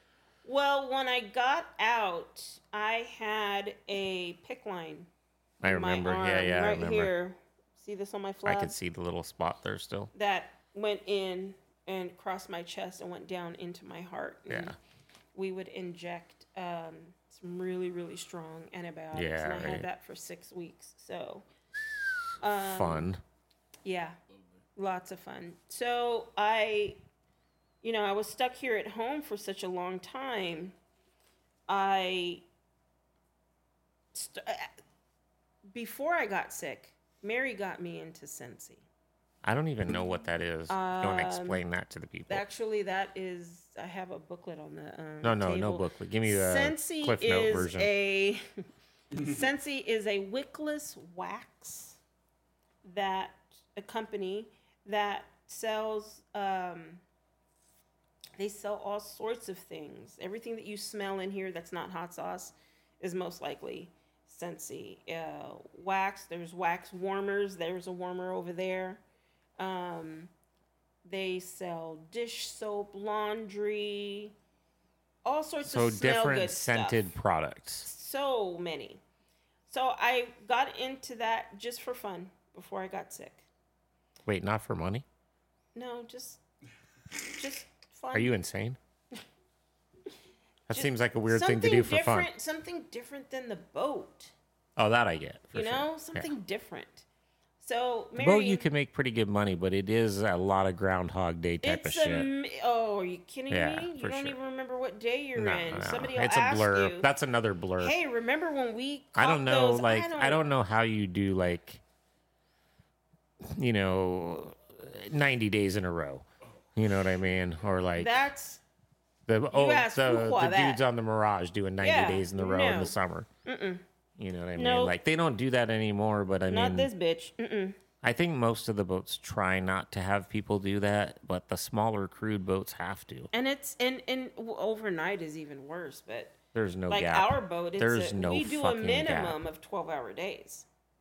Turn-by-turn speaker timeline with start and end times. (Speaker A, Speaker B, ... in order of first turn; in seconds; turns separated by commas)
Speaker A: 0.4-5.1, Speaker B: 5.6-7.1, Speaker A: 5.6-8.7, Speaker B: 8.4-10.1, Speaker A: 10.1-14.8, Speaker B: 14.5-14.7, Speaker A: 15.3-21.4, Speaker B: 19.1-19.9, Speaker A: 22.4-23.1, Speaker B: 22.6-23.2, Speaker A: 23.8-24.2, Speaker A: 24.8-27.0, Speaker A: 27.8-30.7, Speaker A: 31.7-32.4, Speaker A: 34.1-34.7, Speaker A: 35.7-38.8, Speaker B: 39.4-42.4, Speaker A: 40.7-41.6, Speaker A: 42.3-48.4, Speaker B: 45.2-47.9, Speaker A: 49.1-52.0, Speaker A: 52.8-57.0, Speaker A: 58.4-69.0, Speaker A: 69.6-70.3, Speaker A: 71.0-74.3, Speaker A: 75.2-77.0, Speaker B: 75.6-77.9, Speaker A: 77.8-79.0, Speaker A: 79.7-83.5, Speaker B: 84.2-85.0, Speaker A: 85.7-86.4, Speaker A: 87.3-88.3, Speaker B: 88.1-88.8, Speaker B: 90.7-92.3, Speaker A: 90.7-94.3, Speaker B: 94.8-96.3, Speaker A: 95.5-97.0, Speaker A: 97.6-98.6, Speaker B: 98.2-102.3, Speaker A: 101.6-107.1, Speaker B: 103.5-104.4, Speaker B: 105.3-108.0, Speaker A: 107.8-110.4, Speaker B: 109.1-111.8, Speaker B: 113.4-116.2, Speaker B: 116.8-118.2, Speaker A: 118.0-118.6, Speaker B: 119.3-123.3, Speaker A: 119.5-120.8, Speaker A: 121.8-123.8, Speaker B: 124.2-126.9, Speaker A: 124.5-124.9, Speaker A: 126.5-127.8, Speaker B: 128.0-133.3, Speaker A: 133.3-136.3, Speaker B: 136.5-139.4, Speaker A: 136.9-140.7